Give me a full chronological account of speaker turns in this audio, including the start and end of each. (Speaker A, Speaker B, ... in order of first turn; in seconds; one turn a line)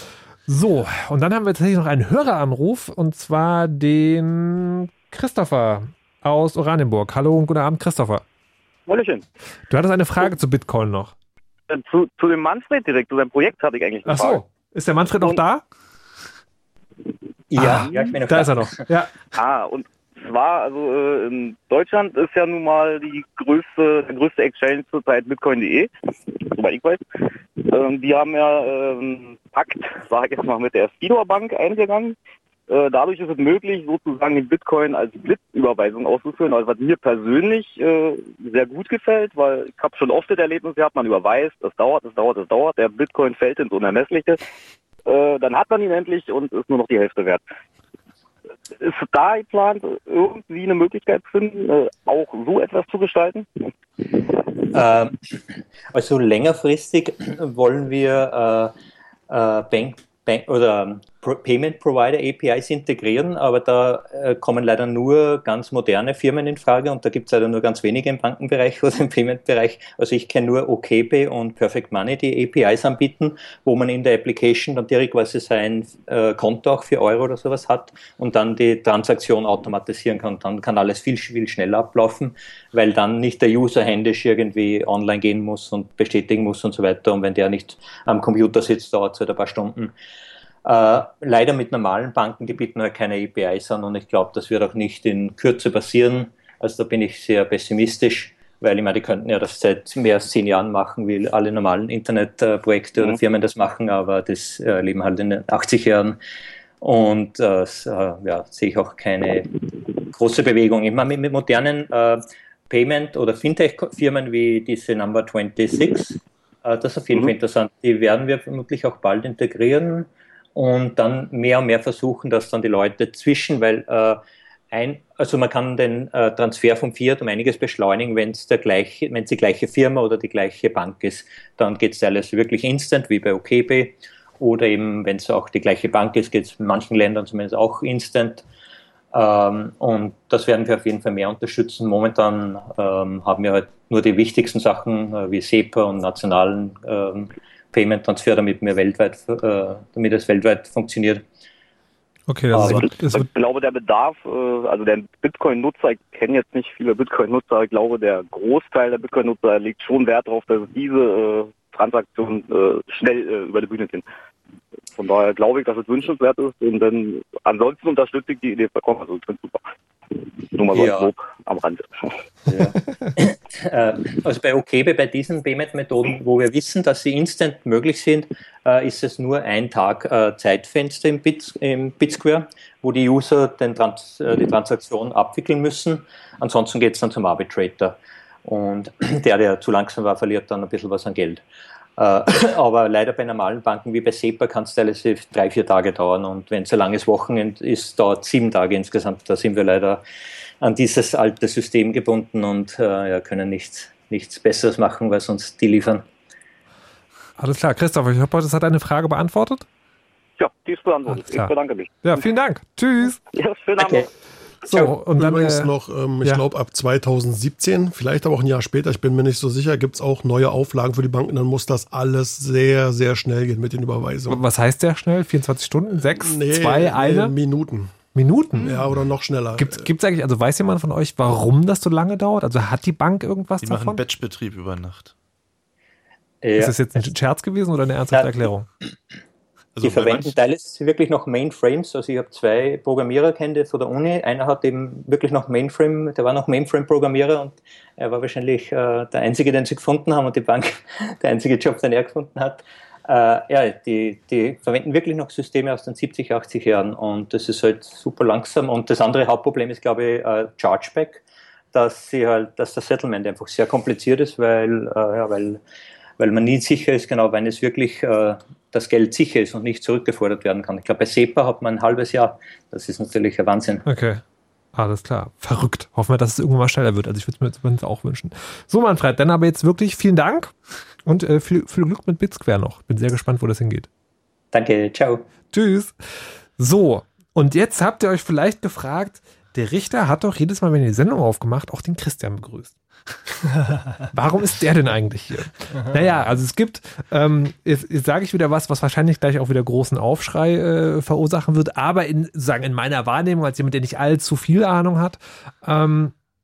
Speaker A: 0.5-8.2
Speaker B: 8.9-9.2
Speaker A: 9.7-11.1
Speaker B: 11.7-14.4
Speaker A: 14.1-15.6
Speaker C: 17.5-18.9
Speaker A: 17.6-19.1
Speaker B: 19.4-27.0
Speaker B: 27.7-32.2
Speaker B: 32.7-44.4
Speaker B: 45.1-47.4
Speaker B: 48.8-53.5
Speaker C: 54.7-55.4
Speaker C: 55.9-58.7
Speaker C: 59.3-89.9
Speaker C: 90.7-106.2
Speaker C: 106.8-109.5
Speaker C: 110.1-124.2
Speaker C: 124.7-138.4
Speaker C: 139.1-151.2
Speaker A: 152.3-153.3
Speaker C: 152.5-152.9
Speaker B: 152.6-164.1
Speaker B: 165.0-172.2
Speaker C: 170.7-171.1
Speaker C: 172.5-191.4
Speaker C: 192.0-200.0
Speaker C: 200.6-206.0
Speaker A: 207.4-209.7
Speaker B: 210.4-212.2
Speaker A: 211.1-213.2
Speaker B: 213.3-214.1
Speaker C: 213.8-214.1
Speaker A: 214.6-215.7
Speaker D: 214.7-224.4
Speaker A: 224.3-227.3
Speaker D: 226.0-227.9
Speaker A: 228.2-228.8
Speaker D: 228.6-229.9
Speaker A: 229.6-234.0
Speaker E: 233.6-235.1
Speaker C: 236.4-237.1
Speaker A: 236.6-238.7
Speaker C: 238.1-238.5
Speaker E: 239.8-240.4
Speaker C: 239.8-261.2
Speaker C: 261.7-265.6
Speaker C: 266.2-273.8
Speaker A: 273.9-274.2
Speaker A: 274.8-280.5
Speaker A: 281.1-283.9
Speaker C: 284.5-285.2
Speaker A: 285.5-292.8
Speaker A: 294.1-306.1